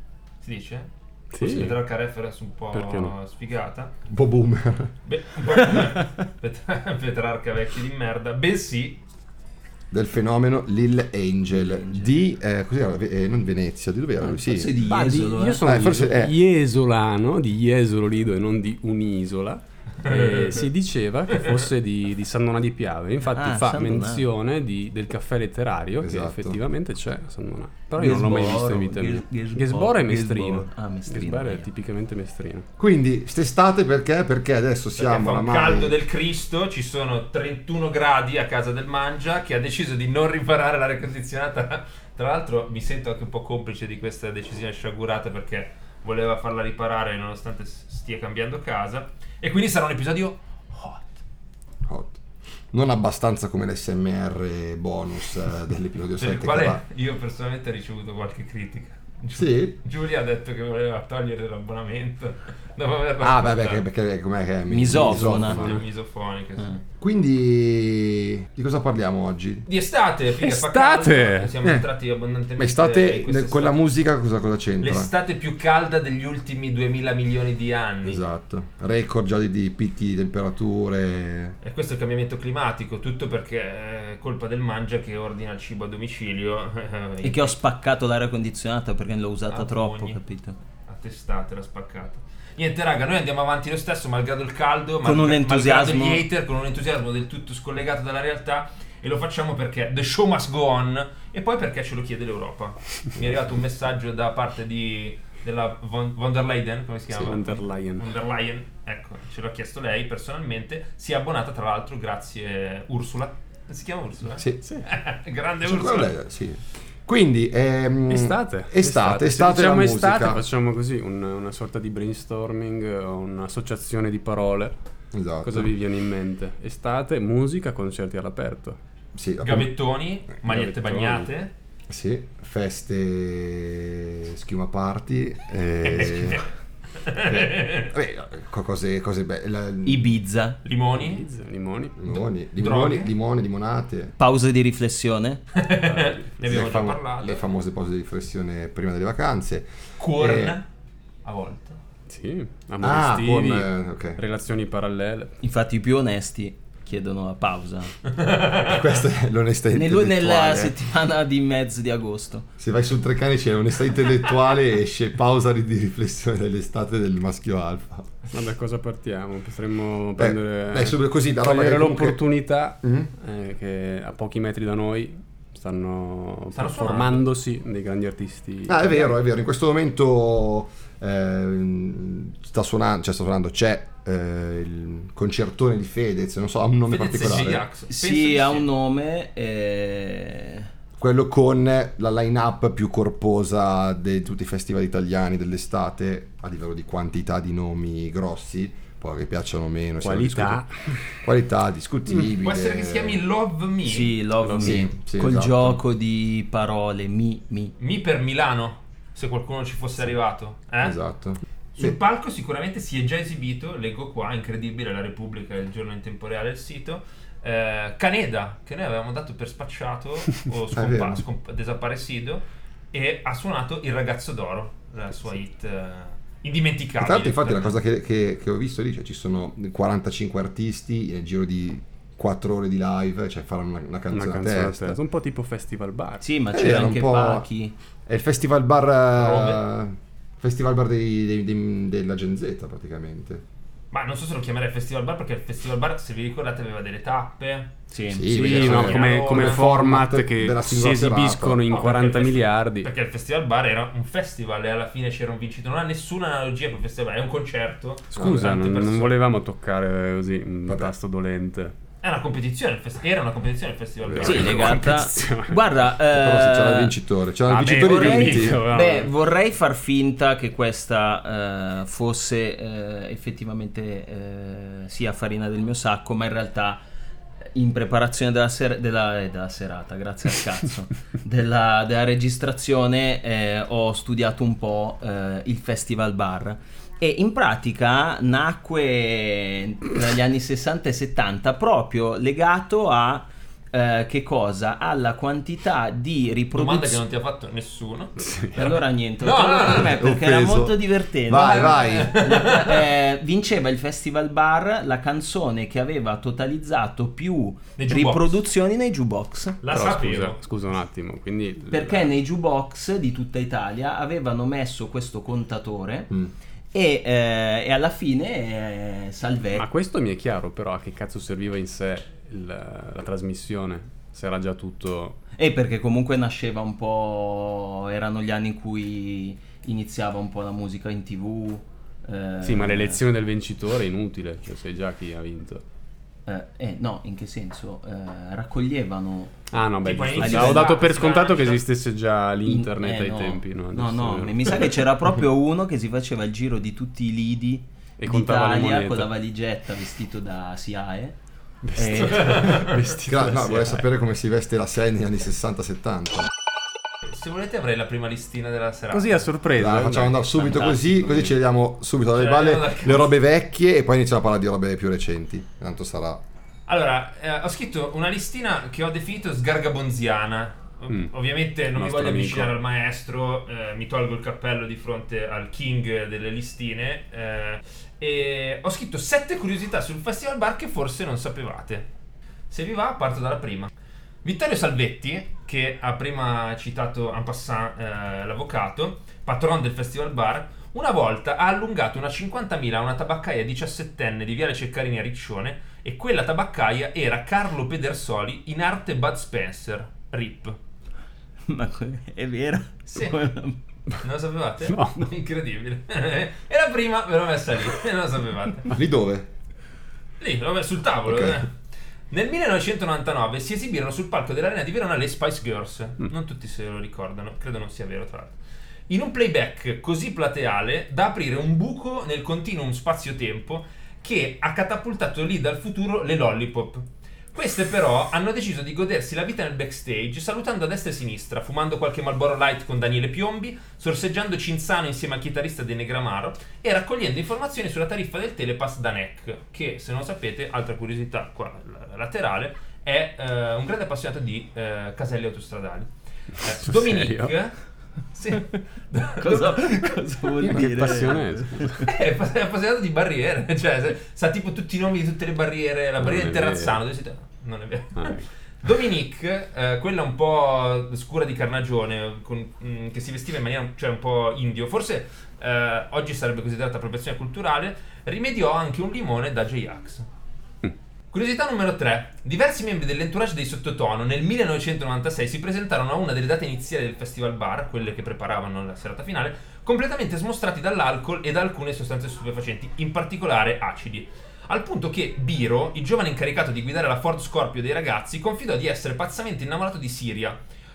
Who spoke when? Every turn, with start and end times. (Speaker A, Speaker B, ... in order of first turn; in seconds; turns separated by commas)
Speaker A: 0.4-3.9, Speaker B: 1.3-1.8, Speaker B: 2.7-3.1, Speaker C: 4.1-4.9, Speaker A: 5.1-9.0, Speaker C: 9.9-14.8, Speaker D: 11.6-12.1, Speaker D: 14.2-15.7, Speaker B: 14.8-32.7, Speaker C: 15.6-16.4, Speaker A: 20.0-20.7, Speaker D: 23.3-24.2, Speaker C: 26.0-26.6, Speaker D: 28.0-31.7, Speaker C: 32.8-36.0, Speaker A: 35.0-51.2, Speaker C: 51.9-52.2, Speaker C: 52.7-56.8, Speaker A: 56.2-63.9, Speaker C: 59.3-59.8, Speaker C: 63.2-65.8, Speaker D: 64.7-65.6, Speaker A: 65.2-66.8, Speaker B: 65.5-65.8, Speaker C: 67.0-69.7, Speaker A: 69.7-73.8, Speaker B: 70.4-71.7, Speaker C: 72.6-75.1, Speaker A: 74.8-78.2, Speaker C: 78.0-81.6, Speaker A: 81.6-87.6, Speaker D: 87.2-90.6, Speaker A: 89.5-90.2, Speaker A: 90.9-116.2, Speaker D: 95.0-96.2, Speaker B: 107.1-108.1, Speaker C: 114.4-114.6, Speaker C: 115.6-120.4, Speaker B: 118.1-124.8, Speaker C: 125.1-125.7, Speaker B: 125.4-128.8, Speaker C: 129.2-129.7, Speaker A: 129.4-131.5, Speaker B: 130.5-131.3, Speaker C: 131.9-136.4, Speaker A: 135.9-136.4, Speaker A: 137.1-137.9, Speaker C: 137.2-140.1, Speaker D: 139.8-140.6, Speaker A: 140.6-141.3, Speaker B: 140.9-142.2, Speaker C: 142.0-144.2, Speaker A: 142.6-143.1, Speaker D: 144.2-145.4, Speaker A: 145.5-147.4, Speaker B: 145.8-146.6, Speaker C: 146.4-150.6, Speaker A: 150.0-150.7, Speaker A: 151.2-151.8, Speaker B: 152.1-155.3, Speaker C: 152.8-154.2, Speaker D: 155.4-157.9, Speaker A: 158.1-158.9, Speaker C: 158.6-160.8, Speaker D: 159.7-162.5, Speaker C: 162.6-168.1, Speaker B: 168.3-179.1, Speaker C: 170.2-172.2, Speaker C: 172.8-173.1, Speaker A: 176.5-177.2, Speaker C: 178.7-187.7, Speaker A: 186.9-188.7, Speaker D: 187.9-190.7, Speaker C: 191.0-200.6, Speaker B: 200.0-201.0, Speaker C: 201.2-203.2, Speaker A: 202.4-204.2, Speaker D: 203.8-207.7, Speaker B: 204.4-204.9, Speaker C: 204.6-205.8, Speaker A: 207.8-211.0, Speaker C: 210.8-212.0, Speaker A: 211.8-227.7, Speaker C: 220.7-221.2, Speaker C: 227.0-235.0, Speaker B: 234.1-236.2, Speaker D: 236.2-237.7, Speaker C: 236.5-237.5, Speaker C: 238.1-243.4, Speaker A: 239.2-239.6, Speaker A: 243.9-247.7, Speaker D: 247.9-248.3, Speaker C: 248.1-251.6, Speaker A: 248.3-249.7, Speaker B: 248.3-252.9, Speaker A: 251.7-259.1, Speaker B: 258.1-261.8, Speaker C: 260.7-260.9, Speaker A: 262.0-265.1, Speaker C: 264.1-264.5, Speaker B: 264.1-265.7, Speaker D: 264.2-266.9, Speaker C: 266.1-268.6, Speaker A: 267.5-269.0, Speaker D: 267.8-276.8, Speaker B: 268.8-269.1, Speaker D: 277.5-297.0, Speaker A: 296.6-298.2, Speaker B: 298.2-298.8, Speaker D: 298.5-309.6, Speaker A: 299.2-300.0, Speaker C: 299.8-302.2, Speaker A: 301.3-302.9, Speaker A: 307.8-308.4, Speaker A: 309.6-310.4, Speaker B: 309.7-312.1, Speaker D: 311.7-316.1, Speaker D: 316.7-319.7, Speaker B: 319.6-325.2, Speaker D: 325.4-333.0, Speaker B: 332.4-335.6, Speaker D: 336.3-339.4, Speaker B: 339.5-344.9, Speaker A: 339.8-341.6, Speaker D: 340.2-340.8, Speaker D: 342.5-351.2, Speaker B: 348.0-349.1, Speaker B: 351.6-353.8, Speaker D: 351.7-352.8, Speaker A: 352.0-352.8, Speaker C: 352.9-356.3, Speaker A: 357.0-359.3, Speaker B: 358.9-361.3, Speaker C: 359.6-366.2, Speaker D: 360.3-361.0, Speaker A: 362.1-363.1, Speaker A: 366.7-381.9, Speaker B: 371.7-372.5, Speaker A: 382.5-383.7, Speaker A: 384.2-400.6, Speaker D: 401.5-403.6, Speaker A: 402.9-403.2, Speaker A: 404.0-408.8, Speaker B: 404.6-405.1, Speaker C: 408.7-409.3, Speaker A: 410.2-411.5, Speaker C: 411.1-411.4, Speaker A: 412.1-418.4, Speaker A: 418.9-447.6, Speaker B: 446.7-447.3, Speaker A: 448.1-450.0, Speaker D: 449.2-451.9, Speaker B: 450.4-451.9, Speaker C: 450.4-450.7, Speaker A: 451.9-470.1, Speaker B: 456.0-456.8, Speaker B: 458.0-458.3, Speaker A: 471.1-490.4